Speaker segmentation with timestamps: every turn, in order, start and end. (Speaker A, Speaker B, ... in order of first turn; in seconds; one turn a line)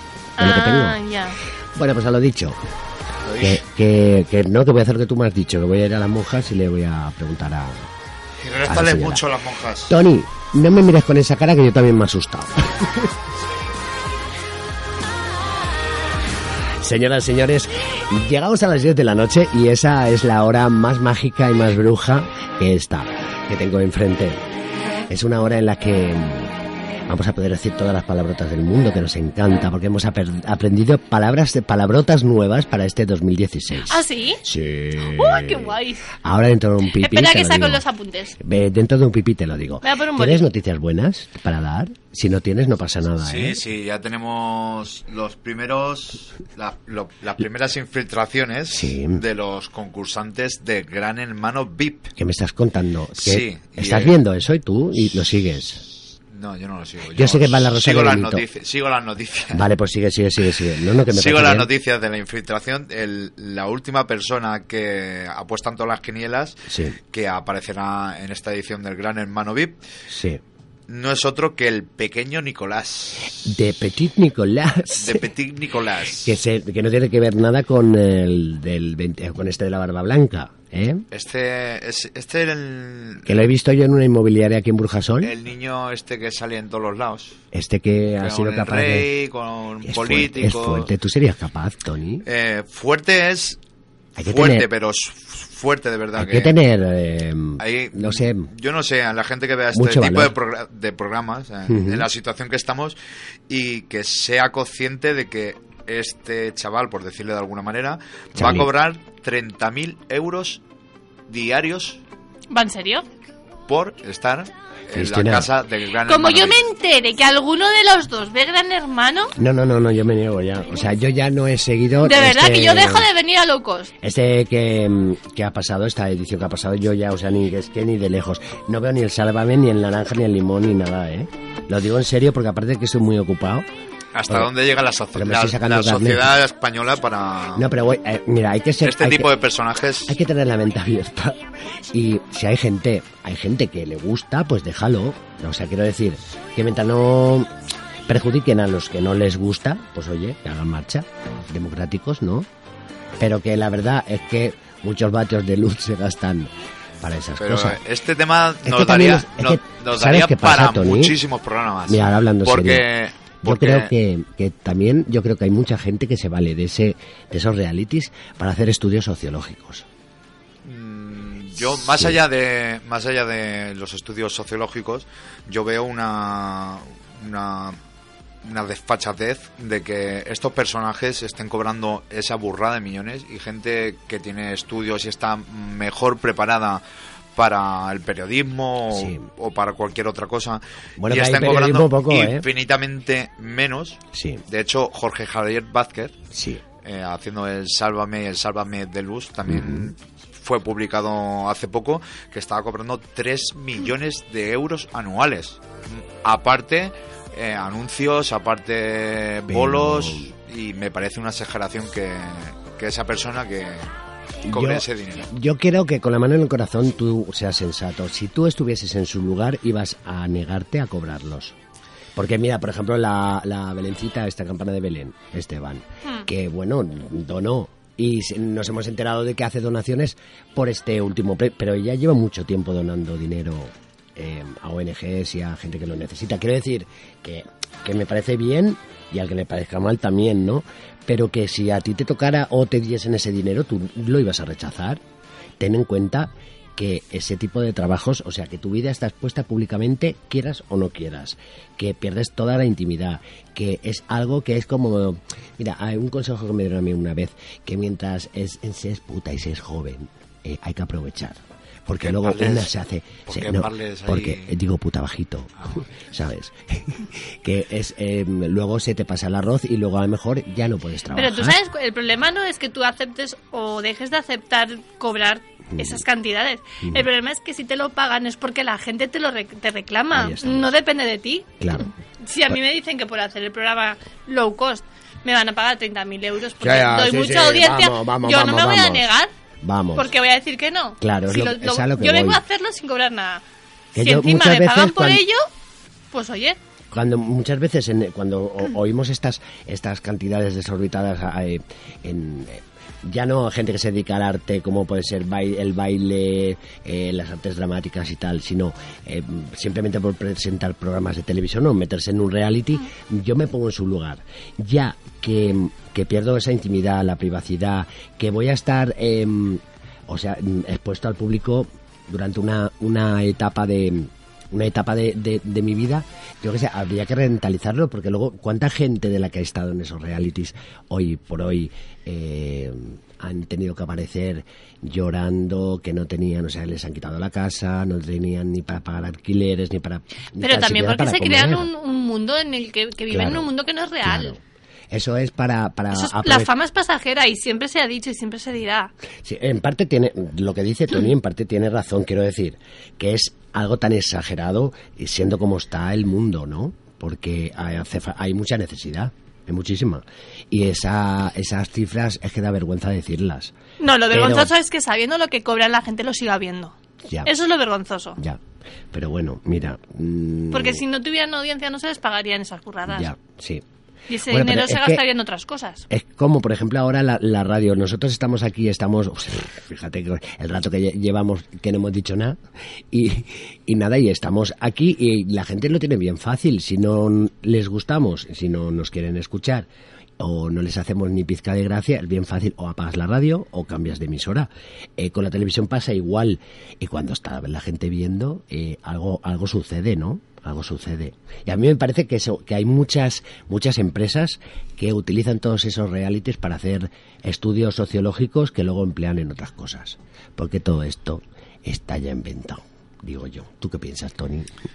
Speaker A: 0.4-1.4
Speaker B: 0.4-1.0
Speaker B: 1.8-2.6
Speaker C: 3.2-3.6
Speaker B: 3.4-7.9
Speaker C: 8.4-9.9
Speaker B: 8.7-9.2
Speaker B: 9.9-13.1
Speaker B: 16.8-24.4
Speaker B: 25.1-26.6
Speaker B: 27.1-37.8
Speaker A: 33.9-34.4
Speaker A: 35.0-36.1
Speaker A: 37.0-38.4
Speaker B: 38.4-43.6
Speaker A: 39.8-40.5
Speaker C: 43.2-52.1
Speaker B: 48.7-49.2
Speaker B: 52.2-55.8
Speaker C: 53.2-54.1
Speaker C: 56.3-59.6
Speaker B: 57.1-58.4
Speaker B: 59.5-61.7
Speaker C: 61.1-69.8
Speaker B: 66.7-67.0
Speaker B: 70.1-70.4
Speaker C: 70.9-73.4
Speaker B: 73.4-75.2
Speaker C: 74.9-76.4
Speaker B: 76.2-81.0
Speaker C: 81.1-83.4
Speaker B: 83.2-85.3
Speaker C: 85.2-87.4
Speaker B: 87.5-89.1
Speaker C: 88.2-90.9
Speaker B: 89.8-92.2
Speaker C: 92.2-93.6
Speaker B: 94.2-94.7
Speaker C: 94.2-96.5
Speaker B: 96.2-98.5
Speaker C: 97.6-103.0
Speaker B: 99.7-100.3
Speaker B: 101.7-102.1
Speaker C: 103.5-110.6
Speaker B: 108.3-108.7
Speaker C: 111.3-112.0
Speaker A: 112.5-113.0
Speaker C: 113.7-116.6
Speaker B: 114.9-115.5
Speaker A: 116.0-119.3
Speaker B: 119.4-123.1
Speaker A: 122.0-123.9
Speaker B: 124.0-133.7
Speaker C: 134.1-137.7
Speaker B: 135.1-136.3
Speaker B: 137.5-139.3
Speaker C: 138.8-140.1
Speaker B: 140.1-147.5
Speaker B: 148.1-152.5
Speaker B: 153.2-157.8
Speaker C: 157.4-163.9
Speaker B: 158.6-161.2
Speaker B: 161.9-162.8
Speaker B: 163.4-169.8
Speaker C: 170.6-177.8
Speaker B: 171.8-172.2
Speaker C: 178.4-186.8
Speaker C: 187.3-196.2
Speaker B: 188.9-189.2
Speaker B: 191.0-192.4
Speaker B: 194.1-194.4
Speaker B: 196.3-196.6
Speaker C: 196.8-213.9
Speaker B: 199.5-199.9
Speaker B: 209.5-210.3
Speaker B: 214.4-221.5
Speaker C: 214.4-215.3
Speaker B: 222.2-245.0
Speaker B: 245.6-271.6
Speaker C: 262.0-262.7
Speaker C: 263.3-264.5
Speaker A: 271.1-289.3
Speaker B: 275.7-276.0
Speaker B: 280.1-280.7
Speaker B: 281.6-281.9
Speaker B: 286.6-289.1
Speaker B: 289.6-290.1
Speaker A: 289.9-293.4
Speaker B: 291.0-292.4
Speaker B: 293.9-295.2
Speaker A: 293.9-295.5
Speaker A: 296.1-296.6
Speaker B: 296.9-341.7
Speaker A: 340.4-344.4
Speaker B: 343.1-343.5
Speaker B: 344.0-344.4
Speaker B: 344.9-346.5
Speaker A: 345.9-348.9
Speaker B: 349.2-363.5
Speaker A: 363.8-368.2
Speaker B: 364.1-364.5
Speaker B: 367.1-367.3
Speaker B: 368.9-370.8
Speaker A: 370.5-373.1
Speaker B: 372.9-373.6
Speaker A: 374.1-375.8
Speaker B: 374.3-375.0
Speaker B: 375.9-382.4
Speaker B: 382.9-389.7
Speaker B: 390.2-414.5